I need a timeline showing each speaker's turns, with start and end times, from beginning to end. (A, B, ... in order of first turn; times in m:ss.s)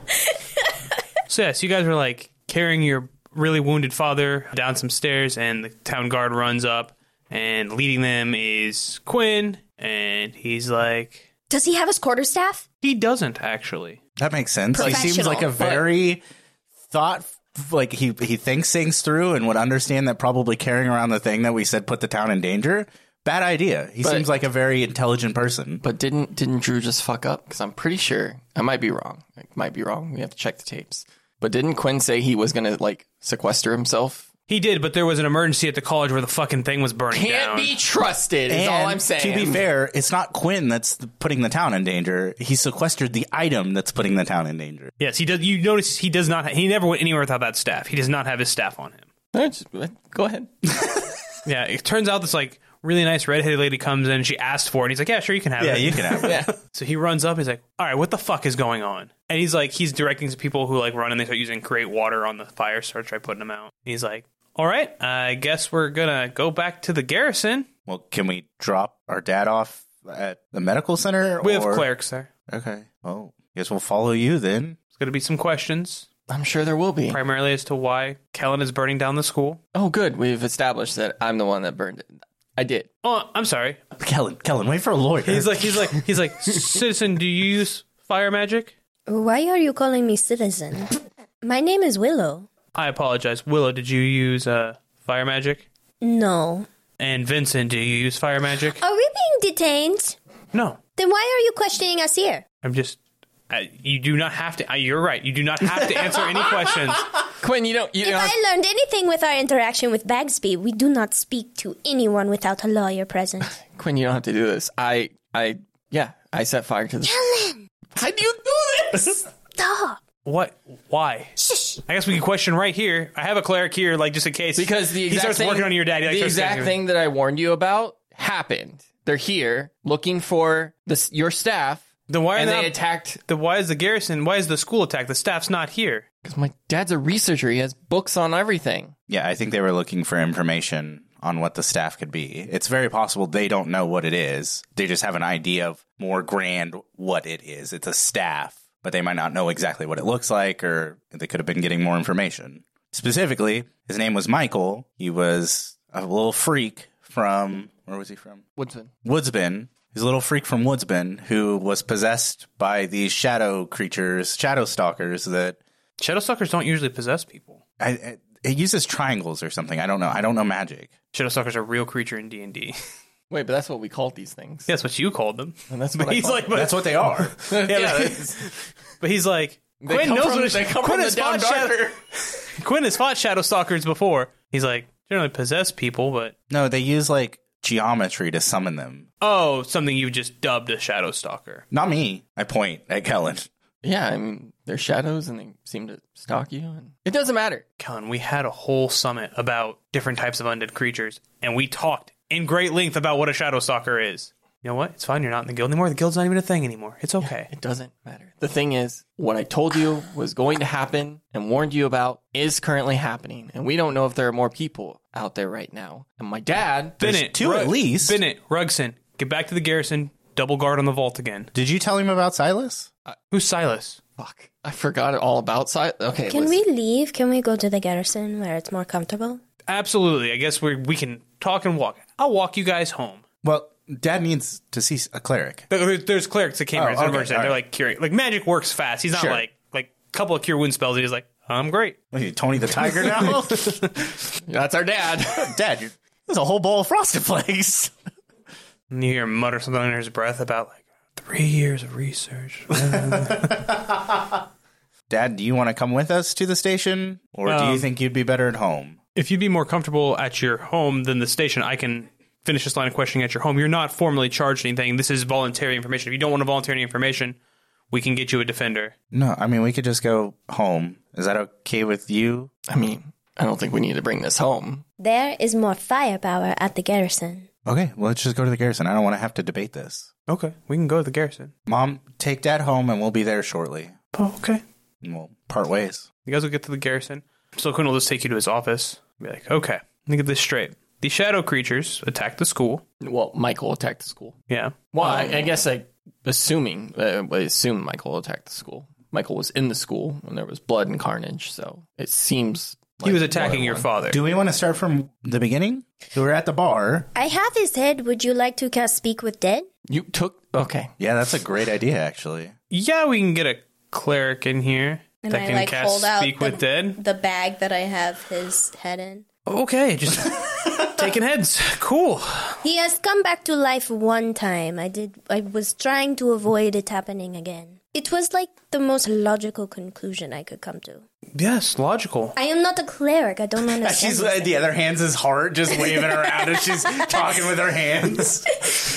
0:01.3-0:11.2 A
0:11.5-0:12.6 B
0:12.8-0:14.0 A
0:14.2-0:16.2 C
0:14.7-0:15.8 B
0:14.8-0:15.8 D
0:16.9-0:25.8 C
0:25.8-0:34.3 D
0:34.5-0:37.7 A
0:37.1-0:39.6 D
0:38.5-0:44.9 C
0:45.0-0:49.1 A
0:49.3-0:50.5 D
0:51.4-1:07.7 A
0:55.6-0:56.5 C
0:56.2-0:56.5 D
1:07.9-1:11.9 C
1:11.4-1:12.3 A
1:12.5-1:14.8 C
1:14.9-1:16.1 A
1:16.3-1:17.2 D
1:17.1-1:19.6 A
1:19.7-1:22.9 D
1:23.0-1:23.8 A
1:24.0-1:25.7 C
1:25.3-1:28.7 A
1:29.1-1:32.5 B
1:32.7-1:35.6 A
1:36.0-1:36.7 B
1:37.0-1:38.8 A
1:38.8-1:40.2 B
1:40.5-1:40.8 A
1:41.0-1:42.4 B
1:42.6-1:43.0 A
1:43.5-1:47.1 A
1:47.4-1:48.4 D
1:48.0-1:53.6 B
1:53.6-1:57.2 D
1:57.0-1:57.6 B
1:57.9-1:59.3 D
1:59.6-2:00.0 B
2:00.2-2:06.8 A
2:01.5-2:01.8 B
2:04.6-2:13.2 D
2:12.1-2:16.0 A
2:16.2-2:18.9 D
2:19.1-2:38.4 C
2:38.6-2:38.9 D
2:39.0-2:45.6 C
2:46.0-2:47.6 A
2:47.8-2:50.9 C
2:51.1-2:52.8 A
2:53.3-2:54.7 D
2:54.7-3:06.3 A
2:55.7-2:56.7 D
2:56.5-2:57.4 C
2:57.4-2:58.5 D
2:59.8-3:02.0 D
3:06.5-3:09.1 C
3:09.2-3:11.6 A
3:11.7-3:13.5 C
3:13.8-3:17.6 D
3:17.8-3:27.5 A
3:27.2-3:37.0 D
3:37.0-3:41.5 A
3:37.0-3:38.2 C
3:41.5-3:42.9 C
3:43.3-3:44.0 A
3:44.2-3:46.6 D
3:46.3-3:49.4 B
3:49.7-3:53.2 A
3:53.4-3:55.6 C
3:55.7-4:02.0 A
3:56.7-3:57.6 C
3:59.1-3:59.4 C
4:02.1-4:04.0 C
4:03.0-4:03.4 A
4:04.5-4:05.6 D
4:05.3-4:07.9 C
4:08.9-4:13.6 A
4:12.9-4:14.2 C
4:15.1-4:19.0 C
4:17.5-4:17.9 A
4:19.2-4:27.4 A
4:27.9-4:28.9 A
4:29.1-4:32.5 C
4:32.7-4:34.8 D
4:35.0-4:37.5 B
4:37.7-4:40.1 C
4:40.3-4:41.5 A
4:41.7-4:44.0 C
4:44.1-4:44.6 A
4:45.0-4:46.1 C
4:46.3-4:52.8 A
4:53.0-4:54.4 D
4:54.5-4:55.3 A
4:54.9-5:03.0 D
5:03.0-5:07.1 C
5:03.0-5:04.2 A
5:07.2-5:09.7 B
5:09.9-5:10.9 D
5:11.0-5:12.5 C
5:12.7-5:17.0 A
5:15.2-5:19.3 B
5:19.5-5:22.6 A
5:22.6-5:31.0 B
5:31.4-5:32.4 A
5:32.4-5:34.6 B
5:33.8-5:38.5 C
5:35.8-5:37.3 B